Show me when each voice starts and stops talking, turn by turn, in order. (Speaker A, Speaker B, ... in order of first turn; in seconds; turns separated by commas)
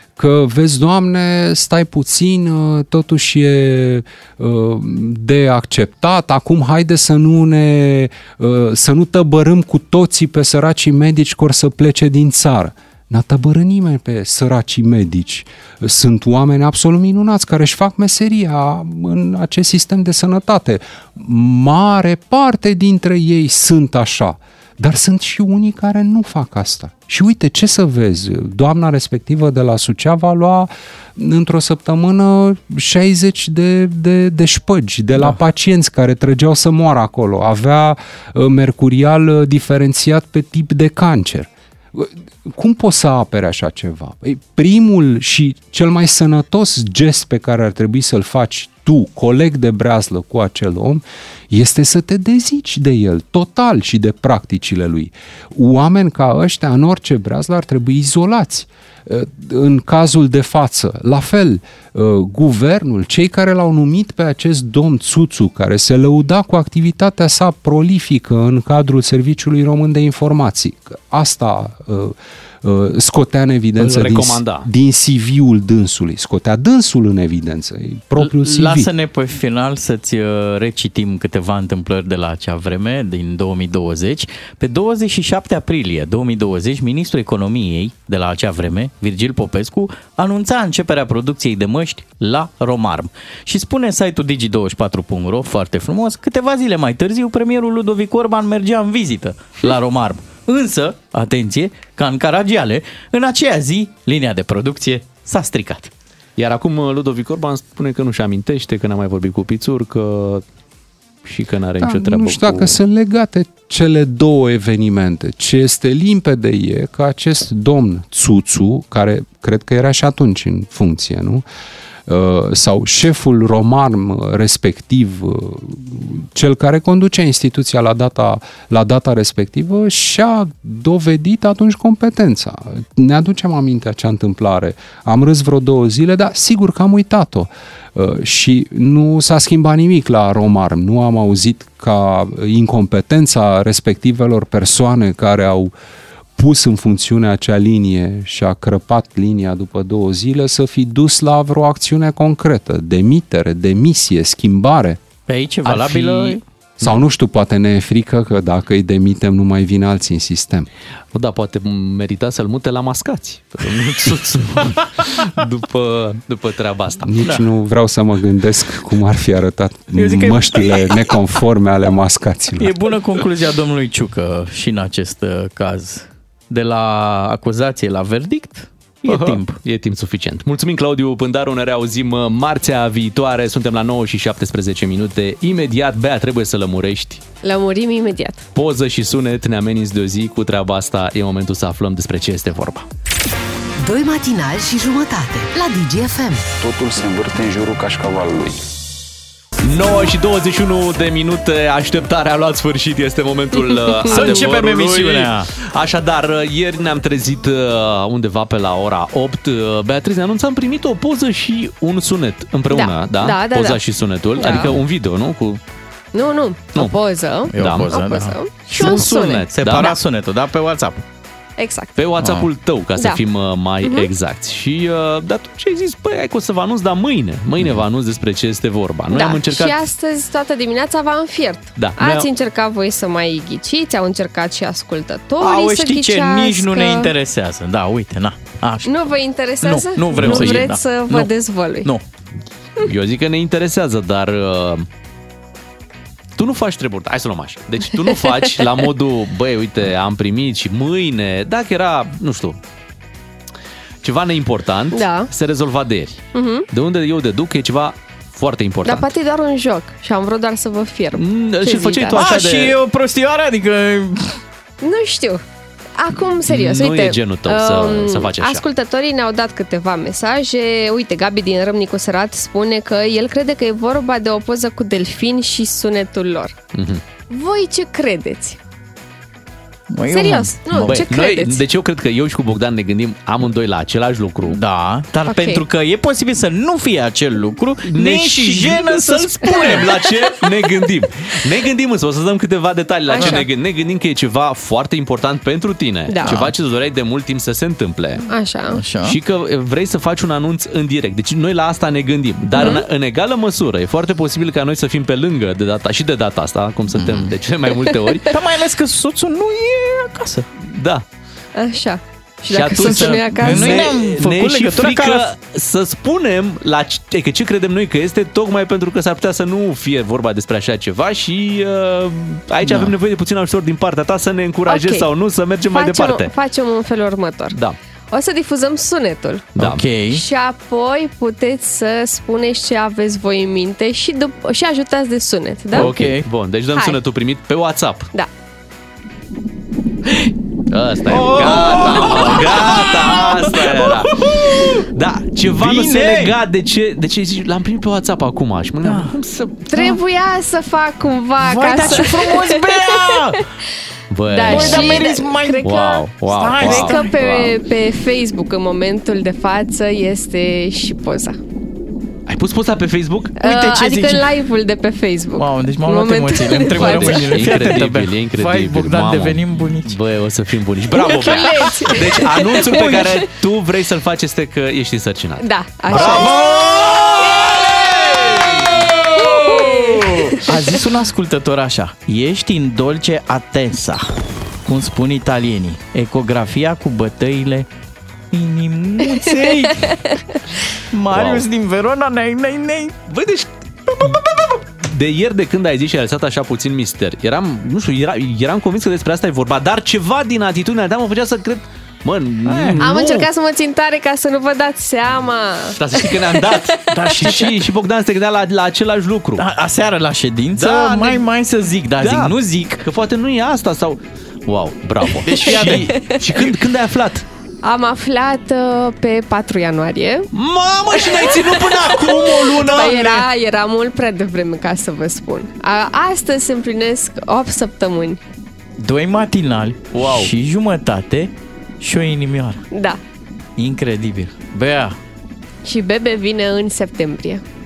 Speaker A: 0.2-78.9, Speaker B: 73.8-74.7, Speaker C: 78.2-105.9, Speaker B: 106.4-110.4, Speaker B: 111.2-112.8, Speaker A: 111.8-121.5, Speaker A: 122.1-145.7, Speaker A: 146.4-155.0, Speaker C: 155.3-156.4, Speaker B: 155.7-157.0, Speaker A: 156.8-160.7, Speaker B: 161.1-167.1, Speaker A: 167.0-172.8, Speaker C: 169.9-171.1, Speaker C: 172.6-179.6, Speaker B: 179.1-187.2, Speaker D: 187.4-188.5, Speaker B: 188.6-192.8, Speaker E: 193.8-196.5, Speaker F: 196.6-198.6, Speaker B: 199.6-215.6, Speaker C: 204.1-205.5, Speaker D: 212.7-213.8, Speaker D: 214.4-214.7, Speaker D: 216.1-219.4, Speaker C: 217.5-221.0, Speaker B: 217.6-217.9, Speaker B: 218.7-220.0, Speaker D: 221.6-221.9, Speaker B: 222.0-229.8, Speaker C: 222.2-222.5, Speaker D: 229.1-237.1, Speaker B: 231.8-232.3, Speaker C: 235.4-241.3, Speaker D: 238.8-241.9, Speaker B: 240.2-240.7, Speaker B: 242.8-244.9, Speaker B: 246.4-252.6, Speaker B: 254.0-259.1, Speaker D: 254.9-255.3, Speaker D: 256.3-256.7, Speaker D: 258.9-262.2, Speaker B: 261.2-262.8, Speaker C: 262.1-264.4, Speaker D: 264.8-265.4, Speaker D: 266.0-276.6, Speaker B: 266.4-268.6, Speaker B: 276.7-277.0, Speaker D: 277.3-278.6, Speaker C: 279.9-281.0, Speaker D: 280.1-281.6, Speaker B: 280.8-284.6, Speaker C: 284.5-289.8, Speaker D: 285.3-285.6, Speaker B: 287.9-298.2, Speaker D: 289.5-289.9, Speaker D: 293.1-293.5, Speaker D: 296.1-296.4, Speaker C: 296.2-296.5, Speaker D: 298.3-298.8, Speaker C: 298.8-299.2, Speaker B: 299.1-308.3, Speaker D: 302.6-302.8, Speaker C: 306.9-307.4, Speaker C: 308.3-310.5, Speaker B: 310.6-311.0, Speaker D: 311.6-313.9, Speaker B: 312.5-326.3, Speaker C: 312.8-315.3, Speaker C: 322.6-322.9, Speaker D: 324.7-325.1, Speaker D: 325.7-327.6, Speaker D: 328.1-329.5, Speaker B: 329.6-329.8, Speaker C: 329.6-330.2, Speaker D: 330.1-335.9, Speaker C: 335.7-336.3, Speaker B: 335.7-338.1, Speaker B: 340.7-349.6, Speaker C: 341.1-344.7, Speaker C: 345.5-346.4, Speaker C: 348.9-349.1, Speaker D: 349.7-353.2, Speaker C: 351.4-353.4, Speaker B: 354.1-357.5, Speaker D: 354.3-356.0, Speaker C: 354.5-355.7, Speaker C: 356.3-357.1, Speaker D: 356.6-361.4, Speaker B: 362.3-363.3, Speaker D: 363.4-367.5, Speaker C: 363.4-364.3, Speaker C: 365.4-370.0, Speaker B: 366.7-379.1, Speaker D: 370.9-373.2, Speaker C: 371.0-371.9, Speaker D: 375.4-376.3, Speaker C: 375.9-376.5, Speaker D: 378.9-380.4, Speaker C: 379.3-384.1, Speaker C: 384.7-387.7, Speaker C: 388.3-389.9, Speaker D: 389.3-390.2, Speaker C: 390.9-393.0, Speaker B: 391.1-391.4, Speaker B: 393.1-403.3, Speaker C: 402.5-402.8, Speaker D: 402.8-407.3, Speaker B: 405.8-409.4, Speaker C: 406.9-407.5, Speaker C: 409.4-412.8, Speaker B: 410.6-411.2, Speaker B: 412.0-417.2, Speaker C: 415.2-415.9, Speaker D: 415.5-416.2, Speaker D: 417.6-420.3, Speaker B: 420.3-423.2, Speaker D: 421.0-428.2, Speaker C: 428.8-432.6, Speaker B: 429.9-430.3, Speaker D: 432.7-433.0, Speaker C: 433.6-435.0, Speaker D: 435.6-437.4